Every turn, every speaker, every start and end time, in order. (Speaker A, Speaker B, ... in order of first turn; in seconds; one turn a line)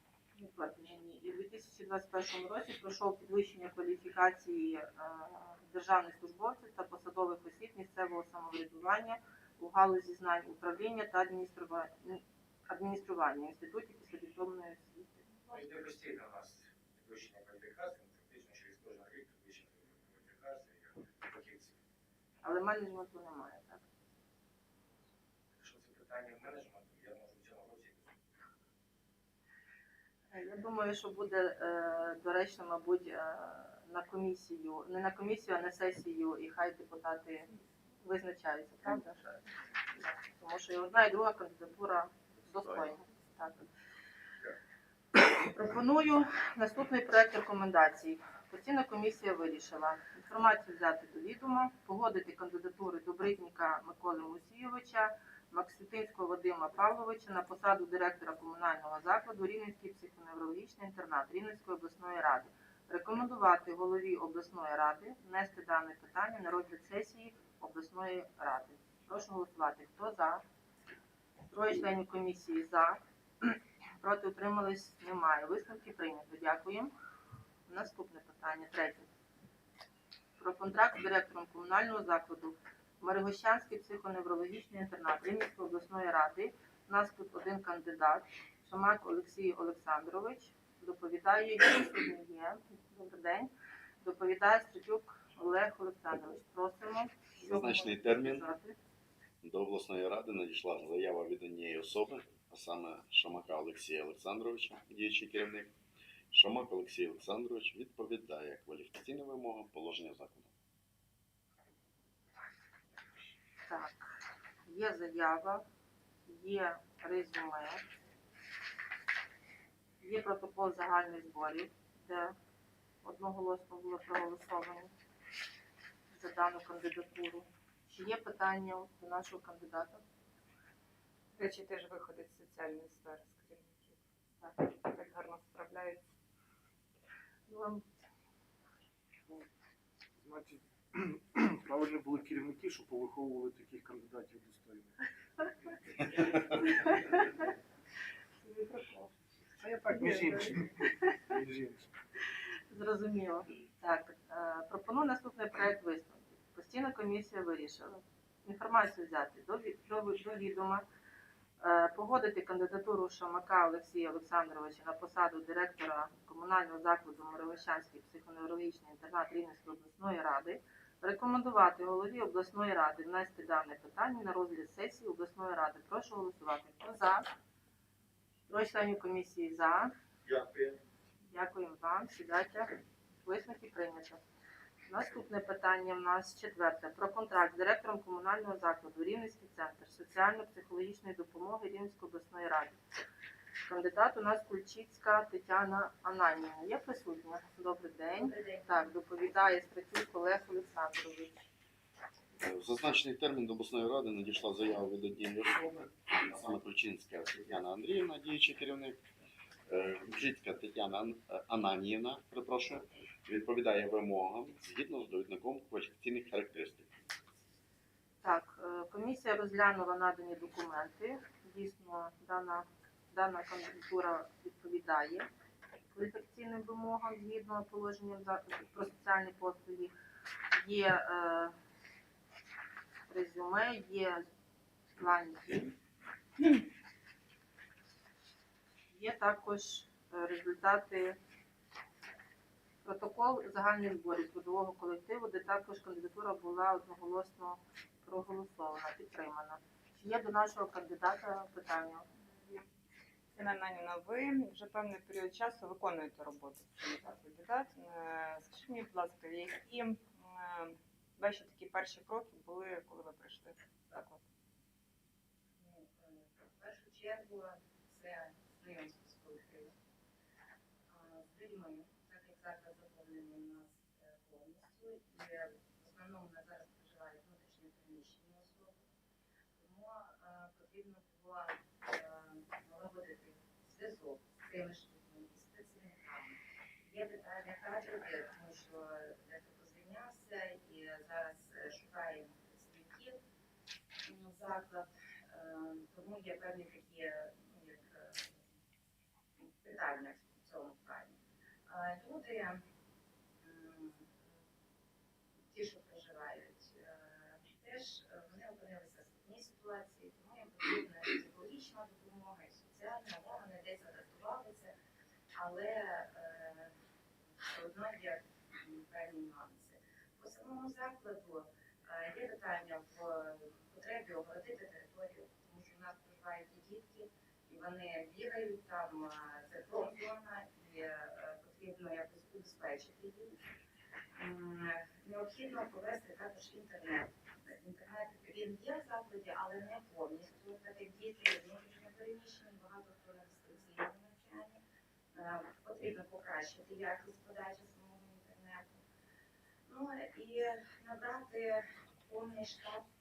Speaker A: 0.4-15.2
Speaker B: 15.5-21.8
Speaker A: 22.4-23.8
Speaker B: 25.6-28.2
Speaker A: 30.3-37.5
Speaker A: 38.0-39.2
Speaker A: 39.9-43.6
Speaker A: 45.4-70.4
Speaker A: 71.5-76.9
Speaker A: 77.7-79.1
Speaker A: 80.4-93.5
Speaker A: 94.0-98.8
Speaker C: 97.4-98.5
Speaker C: 99.4-105.7
Speaker C: 106.3-110.5
Speaker A: 113.7-115.7
Speaker A: 116.3-117.8
Speaker A: 120.0-122.4
Speaker A: 123.0-124.9
Speaker A: 126.1-130.0
Speaker D: 131.4-134.0
Speaker D: 134.6-136.0
Speaker A: 137.5-137.8
Speaker E: 140.2-145.0
Speaker D: 146.2-147.0
Speaker D: 148.4-149.1
Speaker E: 149.6-151.9
Speaker D: 149.9-150.5
Speaker A: 152.7-160.8
Speaker A: 161.6-177.3
Speaker A: 178.5-179.9
Speaker A: 181.3-182.7
Speaker A: 183.2-184.2
Speaker A: 184.9-192.8
Speaker A: 193.7-201.4
Speaker F: 198.1-198.9
Speaker C: 202.4-209.0
Speaker C: 209.7-217.1
Speaker A: 218.2-225.3
Speaker A: 225.9-229.9
Speaker A: 230.6-231.6
Speaker A: 233.1-234.3
Speaker A: 235.0-235.8
Speaker A: 238.9-241.2
Speaker A: 242.8-252.1
Speaker D: 252.3-252.7
Speaker D: 253.4-264.2
Speaker F: 265.6-269.8
Speaker F: 270.9-278.9
Speaker F: 279.6-293.2
Speaker F: 294.1-298.4
Speaker F: 299.4-302.6
Speaker F: 303.4-304.3
Speaker F: 305.5-314.8
Speaker F: 315.4-316.7
Speaker F: 317.4-333.3
Speaker F: 334.1-344.6
Speaker F: 345.1-348.8
Speaker F: 349.7-352.8